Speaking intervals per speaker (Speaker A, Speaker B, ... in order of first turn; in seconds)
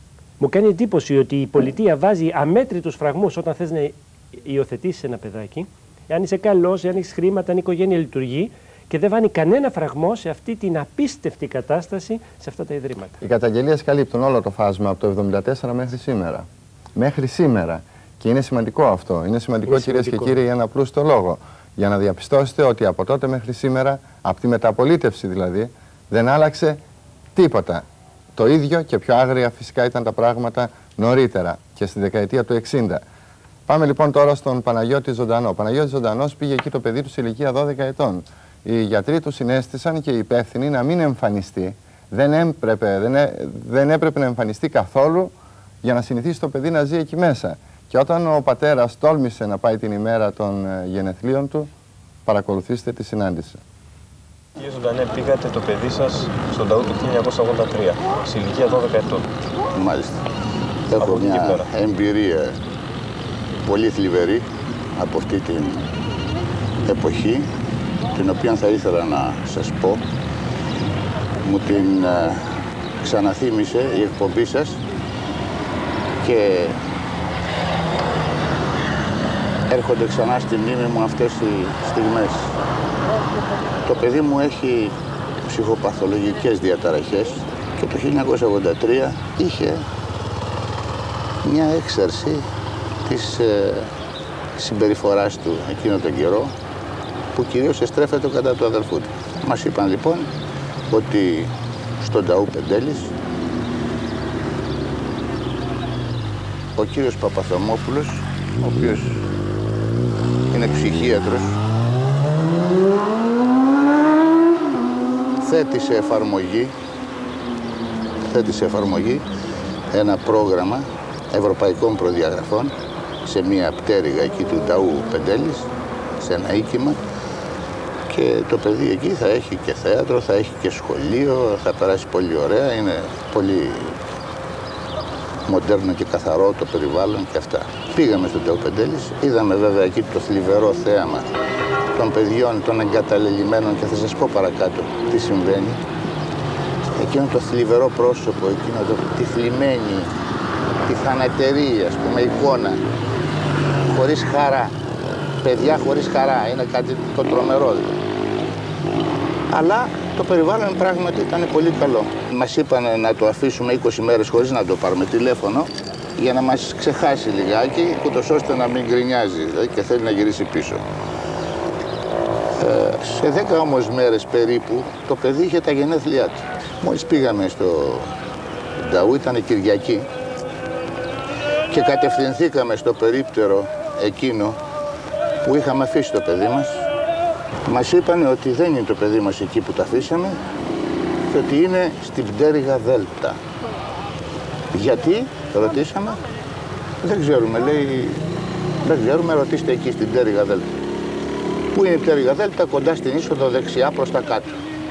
Speaker A: 0.4-13.2, 19.7-20.4
Speaker B: 13.2-26.8, 27.4-33.0, 33.7-51.7, 52.3-53.6
Speaker C: 54.6-59.3, 61.0-61.7
Speaker D: 59.7-60.2, 60.9-62.6, 63.7-64.5, 65.0-65.9, 66.9-67.5, 68.2-70.0, 71.4-72.4, 73.0-74.8, 76.2-76.8, 79.7-82.6, 83.8-84.9, 85.5-89.8, 91.4-92.4, 93.0-93.9, 94.6-96.5, 97.3-100.3, 100.9-103.1, 106.8-109.3, 110.5-111.6, 115.4-116.7, 118.3-119.2, 119.9-122.7, 123.2-127.0, 128.1-134.0, 135.5-141.3, 141.9-145.8, 147.0-150.1, 150.9-152.8, 153.9-154.7, 155.4-158.0, 159.5-170.8, 172.6-178.1, 178.8-180.1, 181.7-184.6, 185.4-186.8, 187.7-190.4, 191.3-193.4, 194.7-196.2, 197.0-198.2, 198.8-200.7, 201.7-204.6